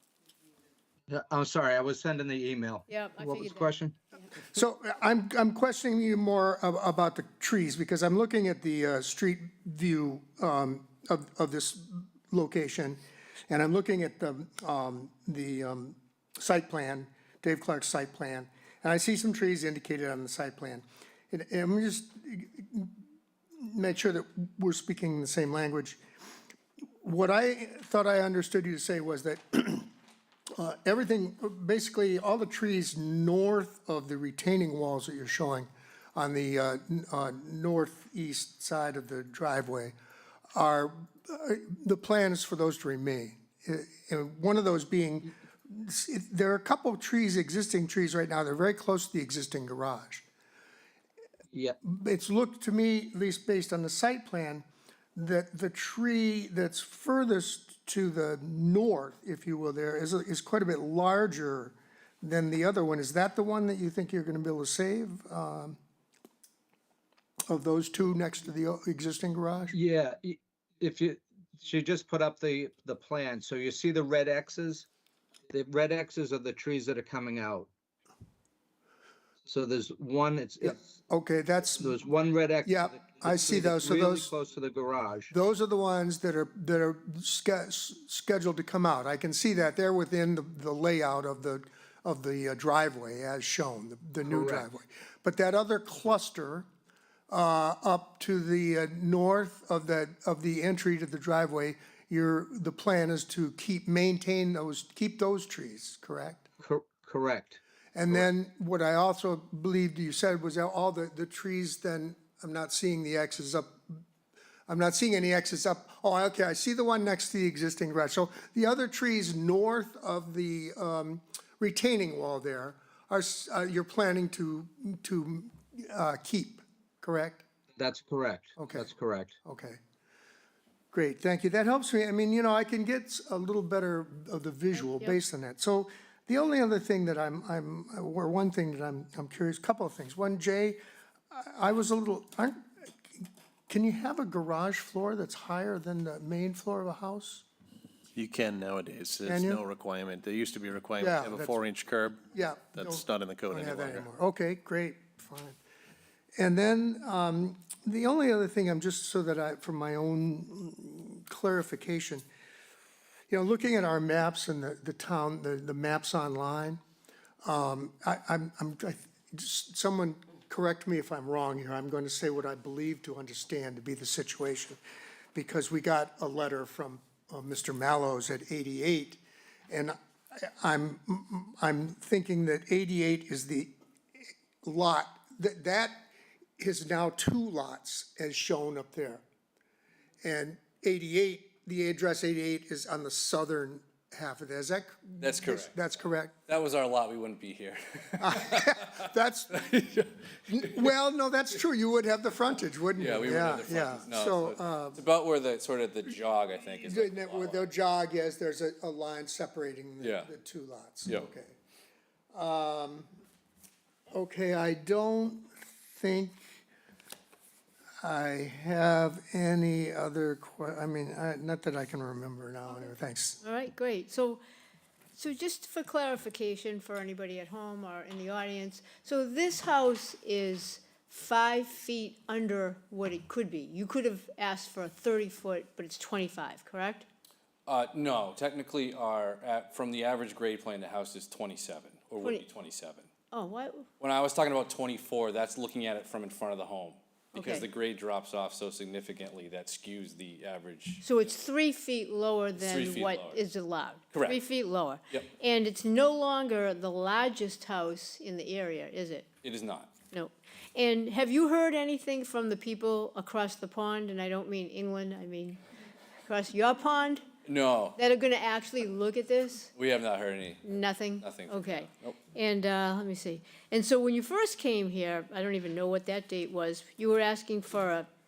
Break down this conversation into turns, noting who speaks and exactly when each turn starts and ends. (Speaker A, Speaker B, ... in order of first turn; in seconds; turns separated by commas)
Speaker A: 1.1-4.0, Speaker B: 2.9-3.7, Speaker C: 4.5-22.9, Speaker C: 23.6-26.0, Speaker C: 27.0-29.9, Speaker C: 30.6-39.9, Speaker C: 40.5-50.2, Speaker C: 51.8-65.8, Speaker C: 67.5-69.8, Speaker A: 69.7-74.9, Speaker A: 75.5-77.7, Speaker A: 79.5-80.9, Speaker C: 80.6-82.0, Speaker A: 81.8-85.3, Speaker C: 82.7-84.3, Speaker C: 85.3-96.7, Speaker A: 94.3-94.7, Speaker C: 97.3-106.5, Speaker A: 106.6-107.6, Speaker C: 108.0-114.0, Speaker C: 114.7-127.5, Speaker A: 127.8-129.3, Speaker C: 128.6-128.9, Speaker C: 129.4-129.8, Speaker C: 130.9-140.8, Speaker B: 134.8-135.2, Speaker C: 141.3-142.6, Speaker C: 143.2-147.4, Speaker D: 148.2-154.1, Speaker C: 149.3-149.6, Speaker C: 151.0-151.5, Speaker C: 152.3-155.6, Speaker C: 156.4-162.2, Speaker C: 163.3-166.8, Speaker C: 167.4-174.8, Speaker C: 175.3-183.7, Speaker C: 184.6-186.1, Speaker C: 186.6-189.2, Speaker C: 190.2-196.4, Speaker E: 195.2-195.7, Speaker E: 196.5-200.9, Speaker C: 198.2-199.8, Speaker C: 200.5-205.0, Speaker E: 203.0-207.7, Speaker C: 206.8-211.5, Speaker E: 210.0-210.3, Speaker C: 212.3-213.1, Speaker C: 214.1-216.5, Speaker C: 218.0-223.4, Speaker B: 223.4-224.4, Speaker B: 225.2-237.1, Speaker E: 237.7-243.1, Speaker B: 243.3-243.9, Speaker E: 244.0-251.3, Speaker B: 247.3-247.7, Speaker B: 251.0-259.3, Speaker E: 252.6-253.4, Speaker E: 254.1-254.4, Speaker E: 259.4-259.9, Speaker B: 260.1-265.6, Speaker B: 266.3-267.3, Speaker E: 267.5-268.0, Speaker B: 268.0-269.7, Speaker E: 269.8-270.6, Speaker B: 270.6-278.1, Speaker E: 271.2-272.2